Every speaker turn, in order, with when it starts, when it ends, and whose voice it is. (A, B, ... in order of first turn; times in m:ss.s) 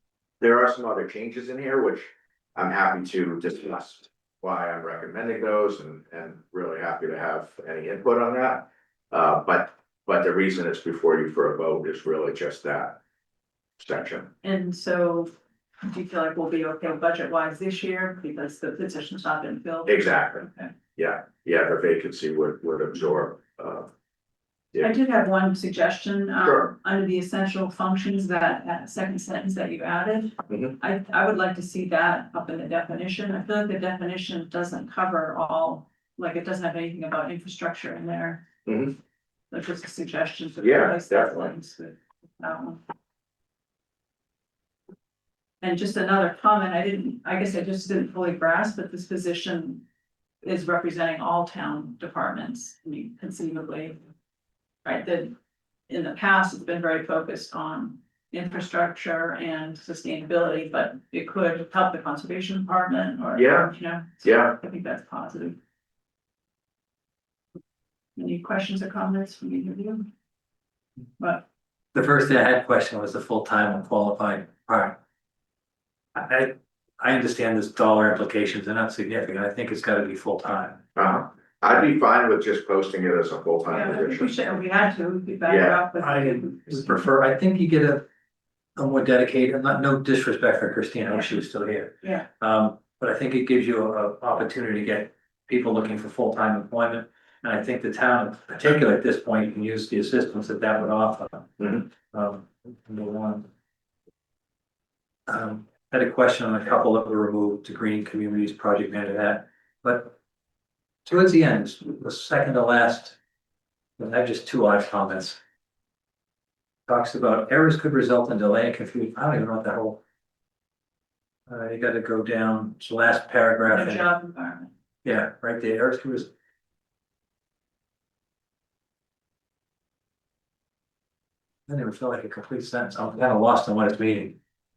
0:00.4-0:13.0 A
0:13.8-0:14.3 A
0:14.4-0:15.3 B
0:15.8-0:20.7 B
0:19.9-0:23.9 A
0:24.8-0:38.4 B
0:26.4-0:26.7 A
0:30.5-0:30.8 A
0:38.7-0:39.0 A
0:39.5-0:42.8 B
0:40.6-0:41.5 A
0:45.6-0:49.8 B
0:50.4-0:54.0 B
0:54.8-0:55.3 B
0:55.9-1:05.6 B
1:03.4-1:03.7 A
1:04.2-1:04.6 A
1:08.2-1:10.1 B
1:11.2-1:11.5 B
1:11.9-1:15.0 C
1:16.2-1:20.8 C
1:21.0-1:24.3 A
1:23.7-1:26.9 B
1:25.5-1:25.8 A
1:26.0-1:28.0 C
1:28.8-1:43.5 C
1:32.0-1:32.3 B
1:45.3-1:50.2 C
1:51.1-1:53.2 C
1:54.0-1:55.4 C
1:56.9-2:00.0 C
2:01.5-2:04.1 C
2:03.7-2:04.7 B
2:05.0-2:06.3 C
2:11.7-2:14.4 C